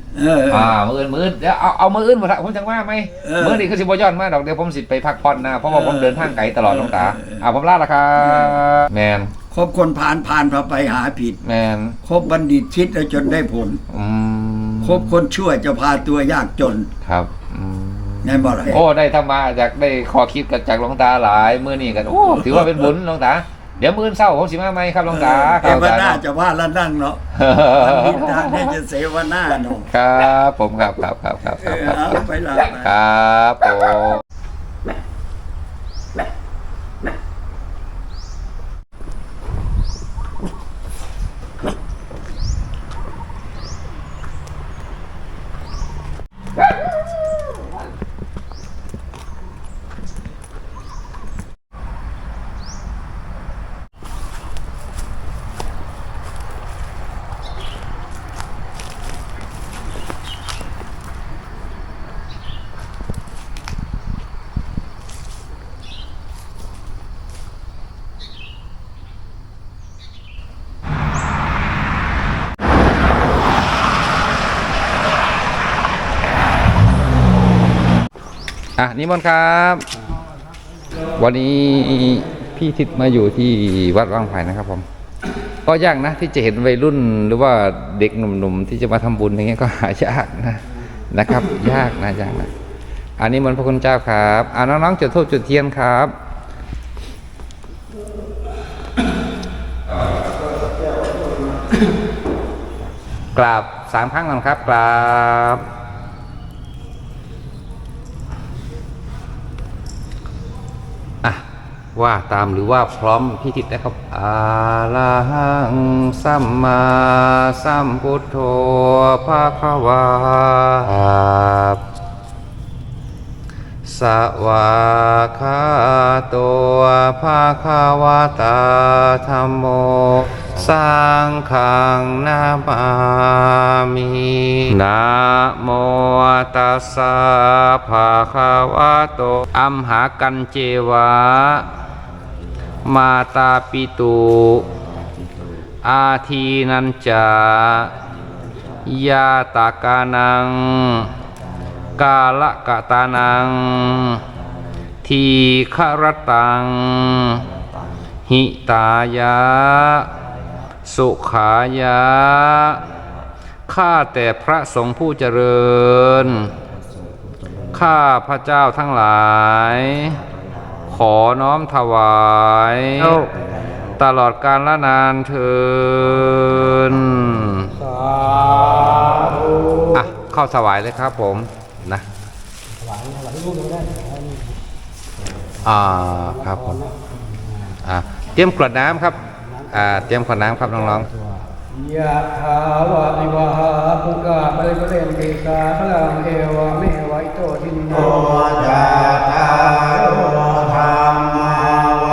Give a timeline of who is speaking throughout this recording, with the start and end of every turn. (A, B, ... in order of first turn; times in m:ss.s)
0:00.1-0:00.7 A
0:00.5-0:09.3 B
0:03.2-0:03.6 A
0:05.7-0:07.4 A
0:08.2-0:08.6 A
0:09.5-0:11.4 A
0:11.4-0:12.0 B
0:12.0-0:13.8 A
0:13.9-0:15.1 B
0:14.8-0:16.9 A
0:17.0-0:26.2 B
0:18.2-0:18.8 A
0:22.2-0:22.9 A
0:25.1-0:29.9 A
0:27.3-0:28.7 B
0:29.9-0:34.2 B
0:31.6-0:32.9 A
1:18.8-1:19.8 B
1:21.2-1:24.9 B
1:25.6-1:32.5 B
1:33.2-1:36.1 B
1:43.4-1:45.7 B
1:51.2-2:01.8 B
2:03.8-2:21.7 B
2:22.8-2:24.7 B
2:25.8-2:27.9 B
2:28.8-2:31.1 B
2:32.0-2:34.2 B
2:35.0-2:37.4 B
2:38.3-2:40.1 B
2:40.8-2:42.8 B
2:43.7-2:46.5 B
2:47.7-2:50.2 B
2:50.9-2:53.3 B
2:53.4-2:53.8 C
2:54.0-2:57.7 B
2:57.8-2:59.9 C
2:59.9-3:02.0 B
3:02.8-3:04.6 C
3:05.6-3:06.8 B
3:06.2-3:07.8 C
3:07.8-3:09.2 B
3:09.2-3:18.3 C
3:09.7-3:11.1 B
3:18.2-3:18.9 A
3:18.3-3:21.7 B
3:20.4-3:20.8 A